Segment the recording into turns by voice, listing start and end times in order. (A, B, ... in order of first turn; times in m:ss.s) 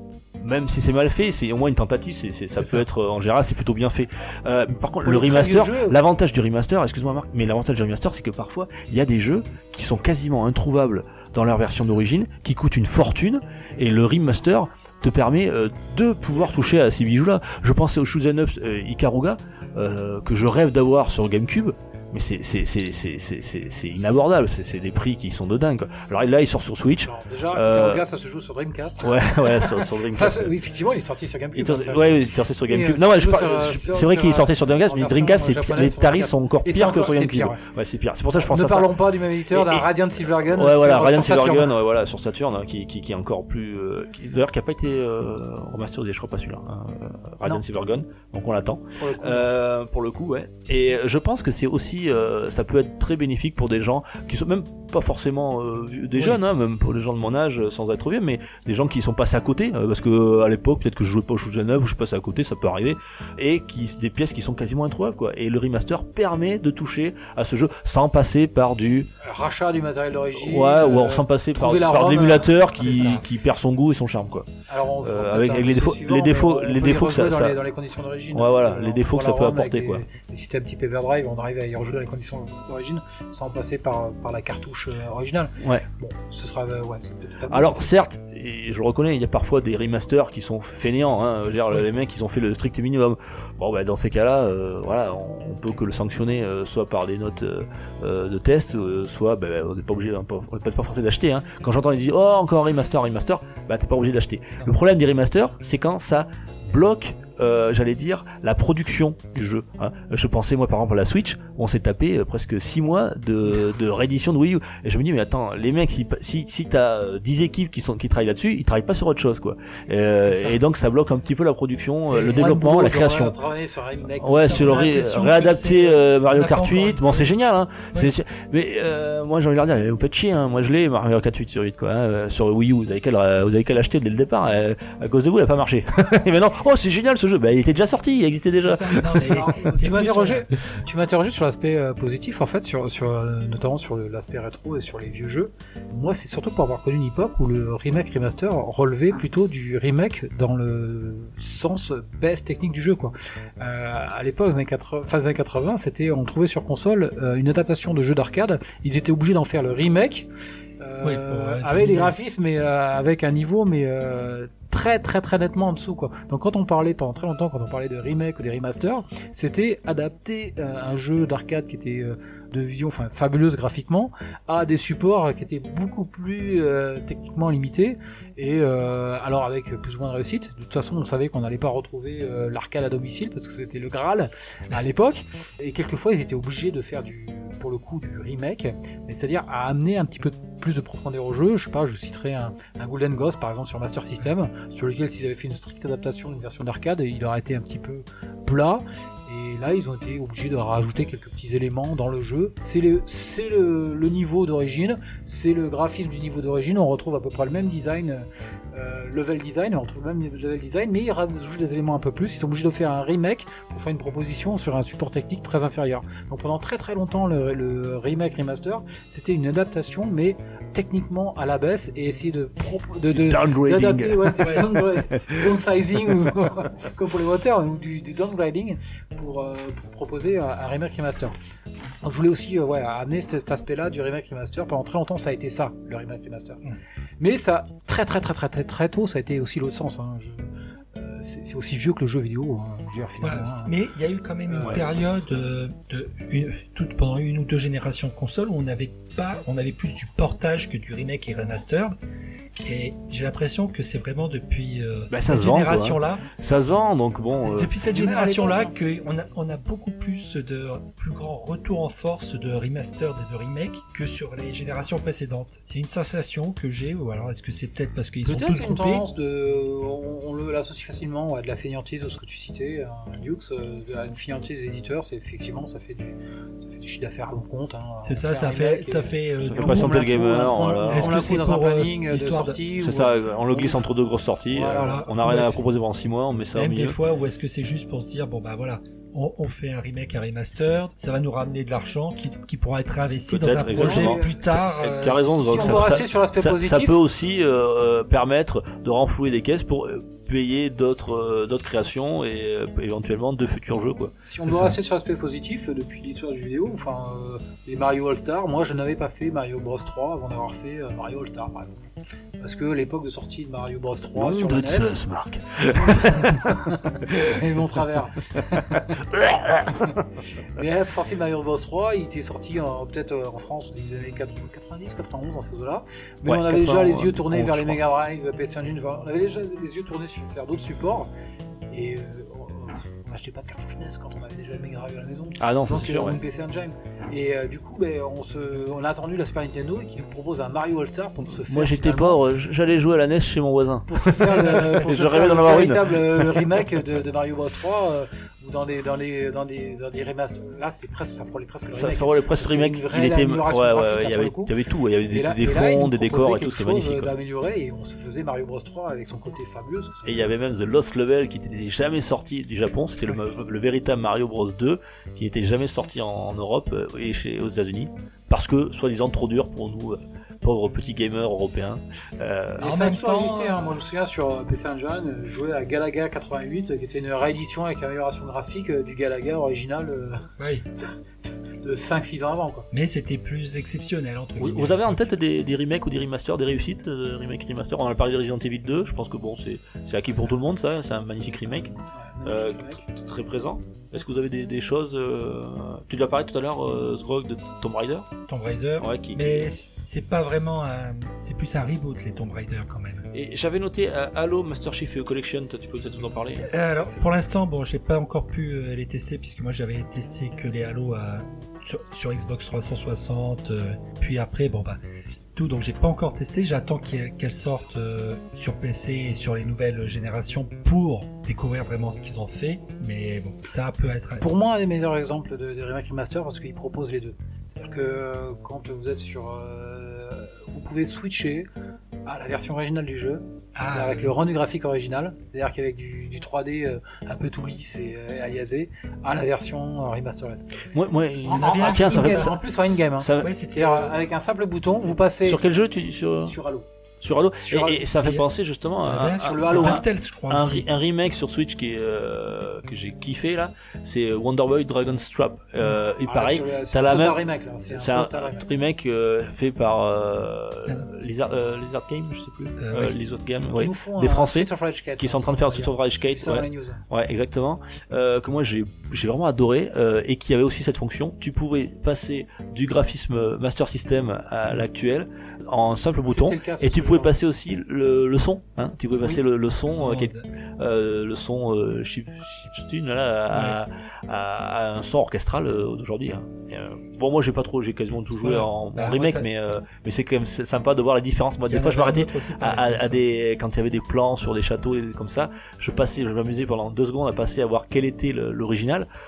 0:00.4-0:28.0 A
0:02.6-0:02.9 B
0:05.0-0:06.0 C
0:27.0-0:37.6 C
0:29.0-0:30.5 A
0:31.5-0:38.9 A
0:38.4-0:41.7 C
0:39.5-0:39.9 A
0:40.4-1:09.1 A
0:49.0-0:49.5 C
0:56.1-0:56.4 B
1:09.2-1:12.5 C
1:10.4-1:14.5 A
1:12.7-1:13.2 B
1:14.7-1:27.9 C
1:15.0-1:17.6 A
1:18.3-1:20.0 A
1:25.6-1:25.8 A
1:27.5-2:03.3 A
2:00.2-2:00.6 B
2:02.0-2:02.6 B
2:02.3-2:04.9 C
2:04.2-2:19.1 A
2:04.4-2:07.3 B
2:18.6-2:20.5 B
2:19.1-2:40.3 C
2:40.8-3:51.3 C
2:41.0-2:42.1 B
3:43.1-3:45.5 A
3:44.4-3:44.7 B
3:52.0-3:56.6 C
3:57.2-4:03.7 C
4:03.2-4:12.0 B
4:04.5-4:04.9 C
4:12.6-4:16.3 B
4:15.1-4:17.7 A
4:17.3-4:29.0 B
4:17.8-4:18.7 C
4:28.2-4:43.9 C
4:38.0-4:40.1 B
4:39.4-4:41.1 A
4:40.9-4:42.6 B
4:42.8-4:47.0 A
4:44.5-4:45.5 C
4:44.7-4:45.6 B
4:46.5-4:55.8 B
4:53.3-4:54.2 A
4:53.6-4:57.0 C
4:54.8-5:04.1 A
5:04.2-5:11.7 C
5:04.4-5:04.8 B
5:12.4-5:15.0 C
5:14.1-5:16.5 A
5:15.8-5:18.9 C
5:17.1-5:17.4 A
5:18.5-5:20.0 A
5:20.5-5:31.1 C
5:26.2-5:27.8 A
5:31.7-5:42.2 C
5:35.4-5:36.2 A
5:41.5-5:46.6 A
5:43.9-5:54.6 C
5:51.7-5:57.1 A
5:55.1-6:00.3 C
6:00.0-6:12.8 A
6:12.6-6:13.8 B
6:12.6-6:20.3 C
6:20.4-6:20.6 B
6:21.6-6:22.7 C
6:22.7-6:25.0 B
6:24.4-6:31.7 A
6:31.0-6:32.8 C
6:32.2-6:38.1 A
6:38.3-6:43.0 B
6:38.8-6:39.5 A
6:43.1-6:46.5 A
6:46.4-6:54.8 B
6:55.3-7:04.2 B
7:04.2-7:11.5 C
7:12.0-7:20.4 C
7:13.6-7:14.2 B
7:20.7-7:22.4 A
7:21.3-7:22.3 B
7:21.3-7:25.4 C
7:23.0-7:23.3 A
7:23.2-7:24.0 B
7:25.2-7:26.3 A
7:26.2-7:26.6 C
7:27.0-7:37.2 A
7:27.4-7:27.8 C
7:28.8-7:30.7 B
7:29.2-7:29.8 C
7:36.0-7:38.4 C
7:37.7-8:18.9 A
7:42.6-7:43.0 B
7:43.5-7:46.8 C
7:56.0-7:57.2 C
7:59.7-8:00.3 B
8:03.3-8:03.6 B
8:08.2-8:09.3 B
8:11.4-8:13.0 B